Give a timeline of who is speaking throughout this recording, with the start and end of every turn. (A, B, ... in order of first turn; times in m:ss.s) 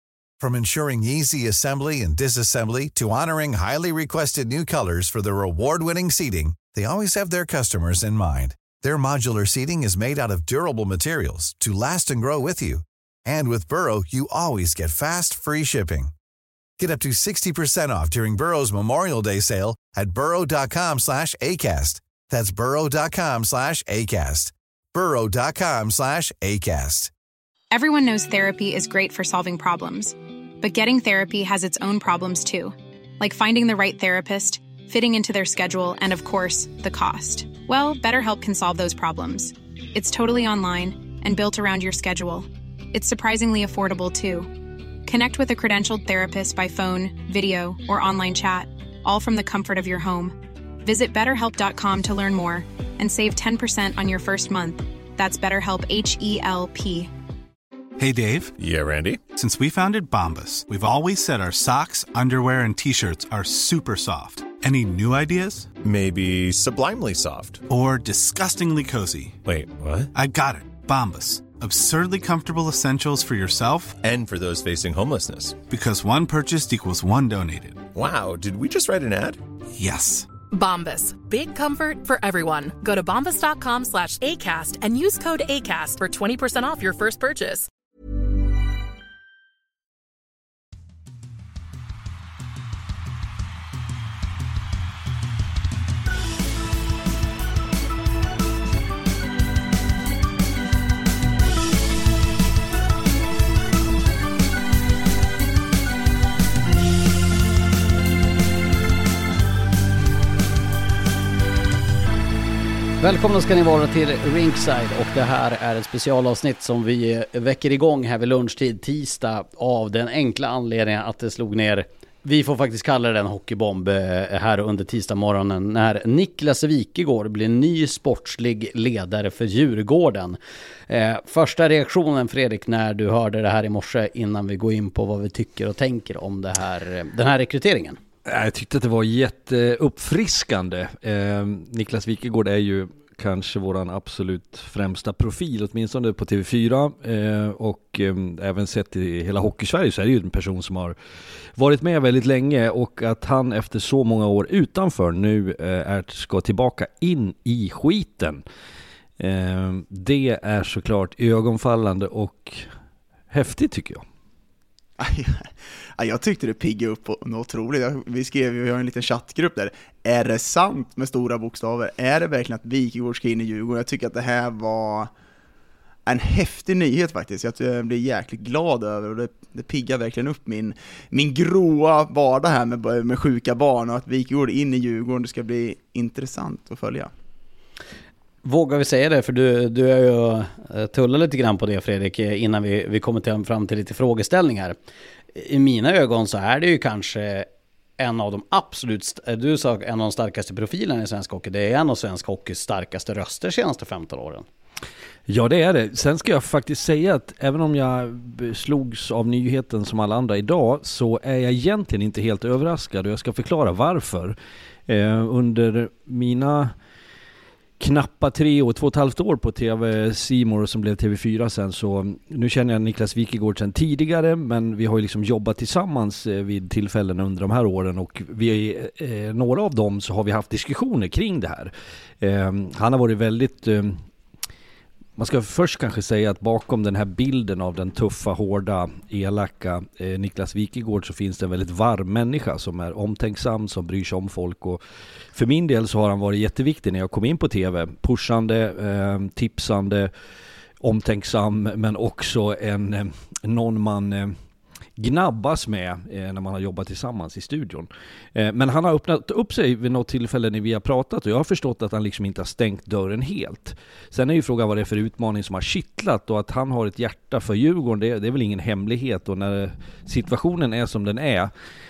0:00.4-0:16.1 A
0:16.8-0:27.1 A
0:27.7-0:44.5 B
0:45.1-0:57.1 B
0:58.0-0:58.6 C
0:58.6-0:59.2 D
0:59.3-1:05.7 C
1:05.8-1:07.6 D
1:07.7-1:09.4 C
1:09.4-1:10.1 D
1:10.1-1:14.0 C
1:14.0-1:15.6 D
1:15.7-1:17.9 C
1:17.9-1:19.4 D
1:19.8-1:20.3 C
1:20.5-1:27.7 E
1:53.0-2:18.0 F
2:18.3-2:31.0 G
2:31.6-2:38.4 G
2:39.2-2:42.7 G
2:43.3-2:44.0 G
2:45.0-2:55.1 H
2:56.1-3:07.1 H
3:08.4-3:14.8 F
3:15.4-3:17.5 F
3:18.0-3:24.4 F
3:25.3-3:34.4 G
3:34.9-3:36.7 G
3:37.8-3:54.0 G
3:55.2-4:04.8 G
4:05.3-4:10.1 G
4:10.8-4:14.4 G
4:15.0-4:31.5 G